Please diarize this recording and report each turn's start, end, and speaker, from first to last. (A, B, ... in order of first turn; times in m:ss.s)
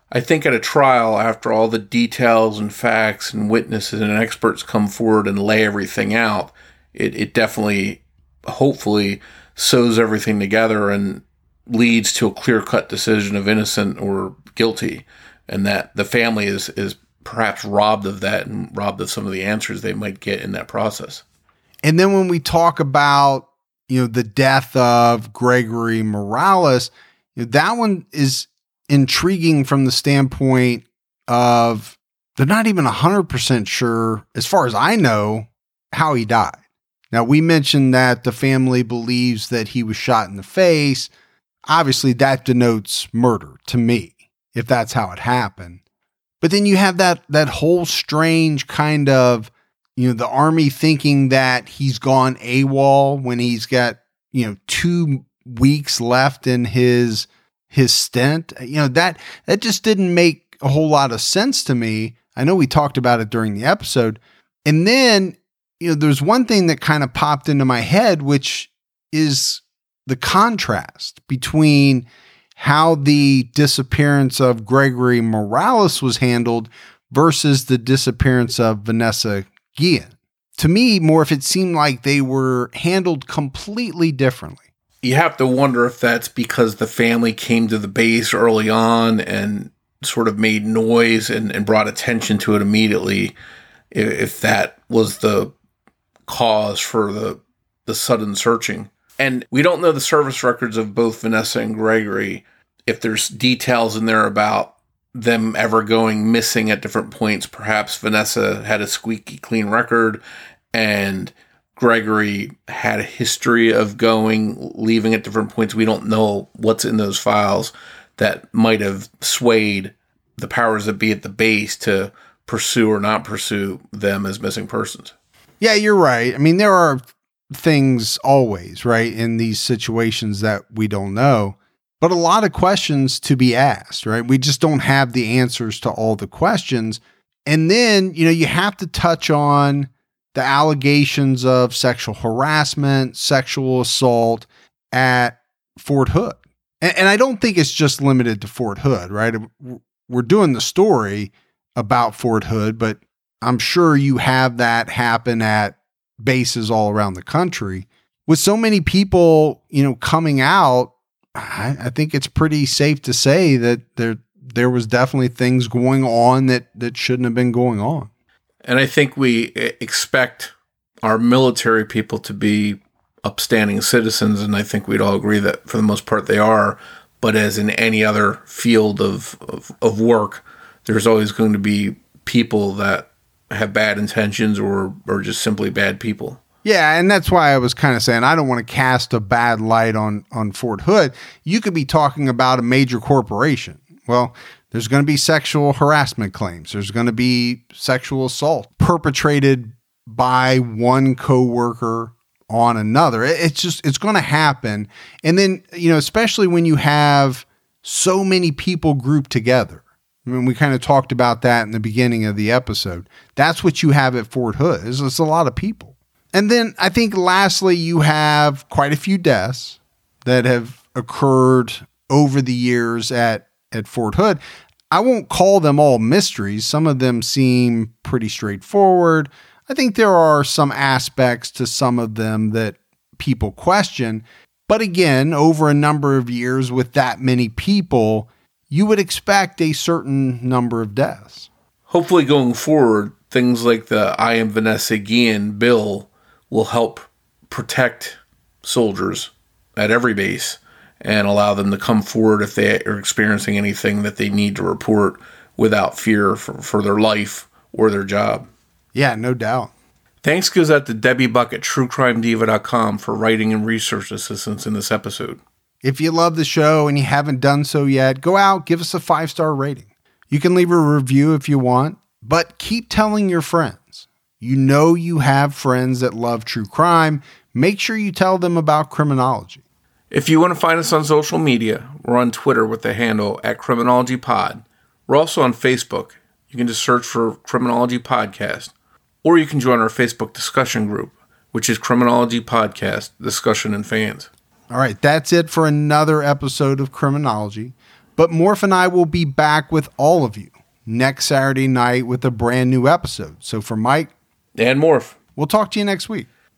0:00.1-0:21.2 A
0:21.8-0:36.6 B
0:37.1-0:41.1 B
0:41.7-0:45.8 B
0:46.4-1:24.6 B
1:25.0-1:33.3 A
1:33.9-1:35.5 A
1:36.2-1:50.2 A
1:50.7-2:05.1 A
2:05.6-2:48.1 B
2:48.6-2:50.5 A
2:51.0-3:06.4 A
3:06.6-3:44.4 B
3:44.9-4:01.5 B
4:01.9-4:18.5 A
4:18.9-4:19.7 B
4:20.2-4:25.4 A
4:25.8-4:39.6 B
4:40.1-4:48.7 A
4:49.2-4:54.3 A
4:54.7-5:04.1 B
5:04.6-5:05.2 A
5:05.4-5:06.3 B